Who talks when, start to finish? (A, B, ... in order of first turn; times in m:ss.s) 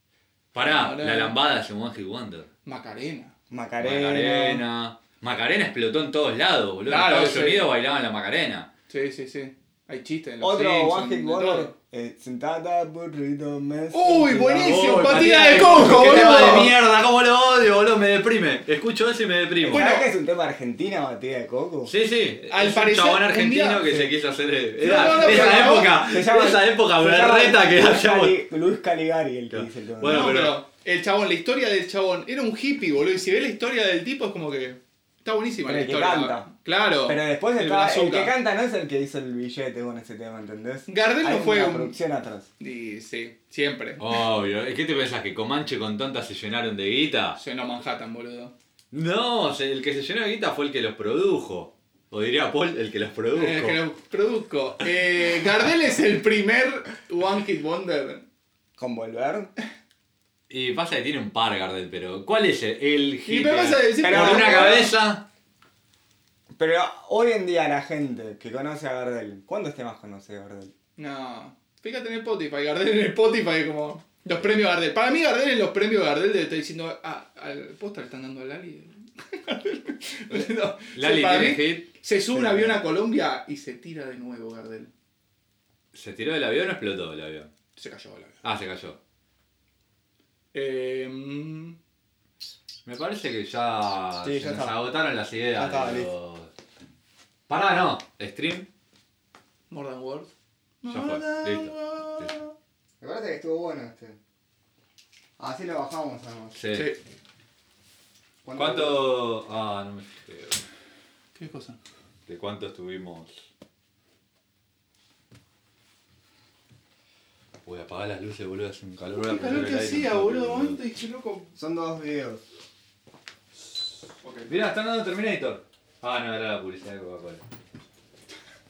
0:00.5-0:02.5 A
0:00.6-0:01.4 B
0:02.6-0:03.3 B
0:03.5-0:04.6 C
0:03.8-0:08.7 A
0:06.9-0:07.7 B
0:08.9-0:11.7 B
0:10.4-0:15.0 C
0:13.9-0:16.7 B
0:14.6-0:19.9 A
0:15.8-0:16.6 C
0:19.6-0:21.9 C
0:19.7-0:20.0 B
0:21.8-0:28.4 A
0:22.5-0:23.8 B
0:24.8-0:26.0 B
0:24.9-0:30.3 C
0:29.5-0:30.6 A
0:30.0-0:38.3 B
0:35.6-0:36.5 C
0:37.0-0:42.5 C
0:40.9-0:41.9 B
0:42.6-0:44.0 B
0:44.0-0:47.4 A
0:47.4-0:48.5 B
0:48.9-0:53.8 A
0:53.3-0:58.2 B
0:58.8-0:59.5 C
1:00.5-1:05.2 A
1:03.2-1:04.9 B
1:04.0-1:04.8 C
1:06.6-1:10.7 C
1:11.0-1:24.9 B
1:20.9-1:21.9 A
1:22.3-1:22.8 C
1:25.9-1:27.5 A
1:27.8-1:28.4 B
1:28.4-1:29.0 A
1:30.5-1:31.8 B
1:32.8-1:36.5 A
1:34.2-1:34.7 C
1:35.6-1:36.1 C
1:37.5-1:38.7 A
1:39.7-1:40.3 B
1:40.8-1:42.5 B
1:40.9-1:42.3 A
1:43.0-1:44.2 C
1:45.4-1:46.6 C
1:46.5-1:46.9 A
1:46.7-1:47.0 B
1:48.4-1:49.0 C
1:48.6-1:50.6 A
1:51.4-1:51.8 B
1:52.3-1:53.4 A
1:57.6-2:00.8 A
1:59.1-2:01.5 B
2:01.5-2:02.4 C
2:04.2-2:04.5 B
2:04.5-2:07.4 A